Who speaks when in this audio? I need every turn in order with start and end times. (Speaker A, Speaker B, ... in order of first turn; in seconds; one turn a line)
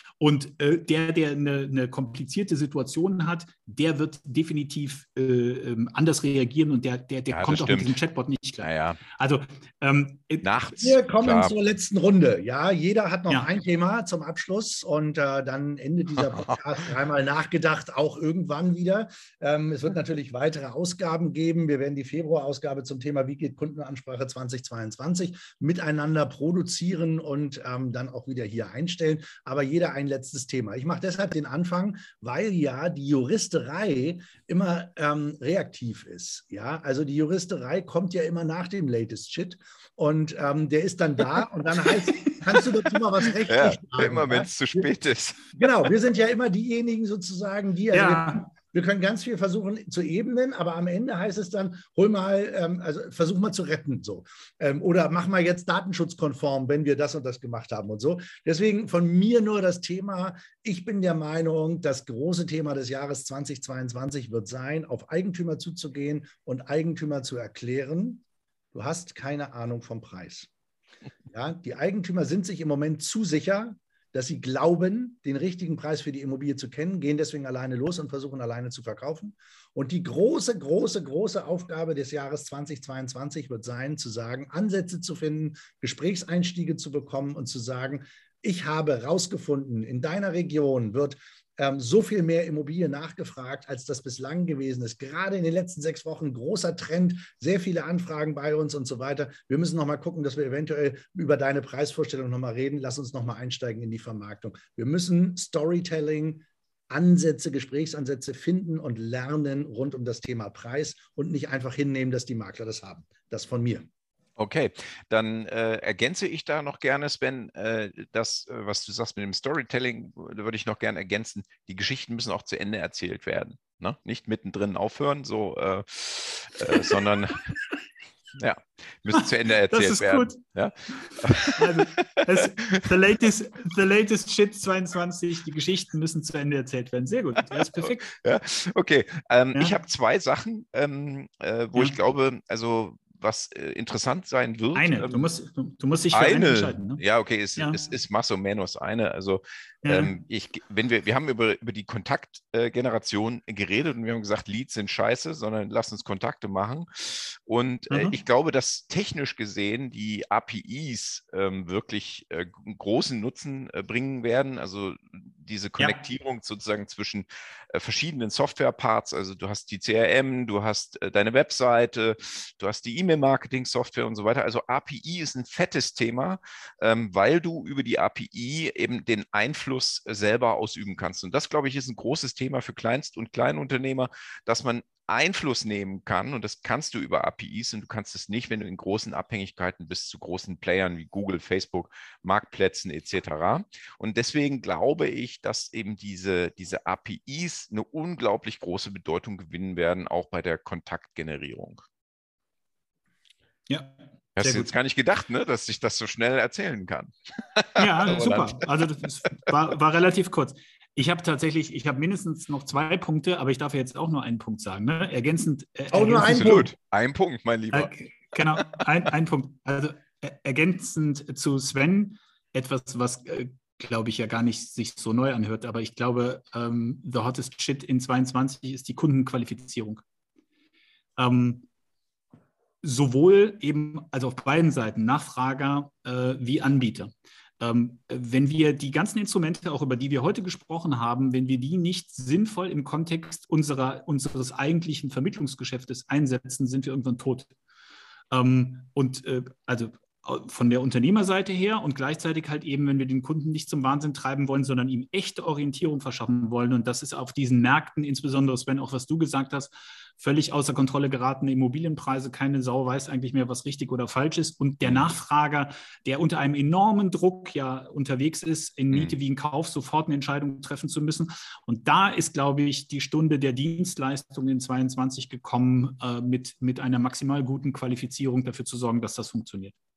Speaker A: 0.2-10.5
Speaker B: 7.3-8.0
Speaker B: 8.6-9.0
Speaker B: 10.4-11.5
Speaker C: 10.8-44.9
Speaker A: 42.2-42.6
Speaker B: 43.5-45.5
Speaker C: 45.5-70.5
Speaker A: 47.9-48.5
Speaker C: 71.3-113.9
Speaker B: 114.4-127.5
Speaker B: 128.4-132.8
Speaker A: 129.1-138.1
Speaker B: 137.5-145.2
Speaker A: 144.7-147.0
Speaker B: 146.1-201.8
Speaker A: 149.8-150.1
Speaker A: 157.9-158.2
Speaker A: 203.7-204.7
Speaker B: 204.4-208.6
Speaker A: 207.8-216.6
Speaker C: 215.9-216.7
Speaker B: 216.2-217.9
Speaker A: 217.7-230.0
Speaker A: 231.2-231.7
Speaker A: 232.8-247.5
Speaker A: 248.3-279.7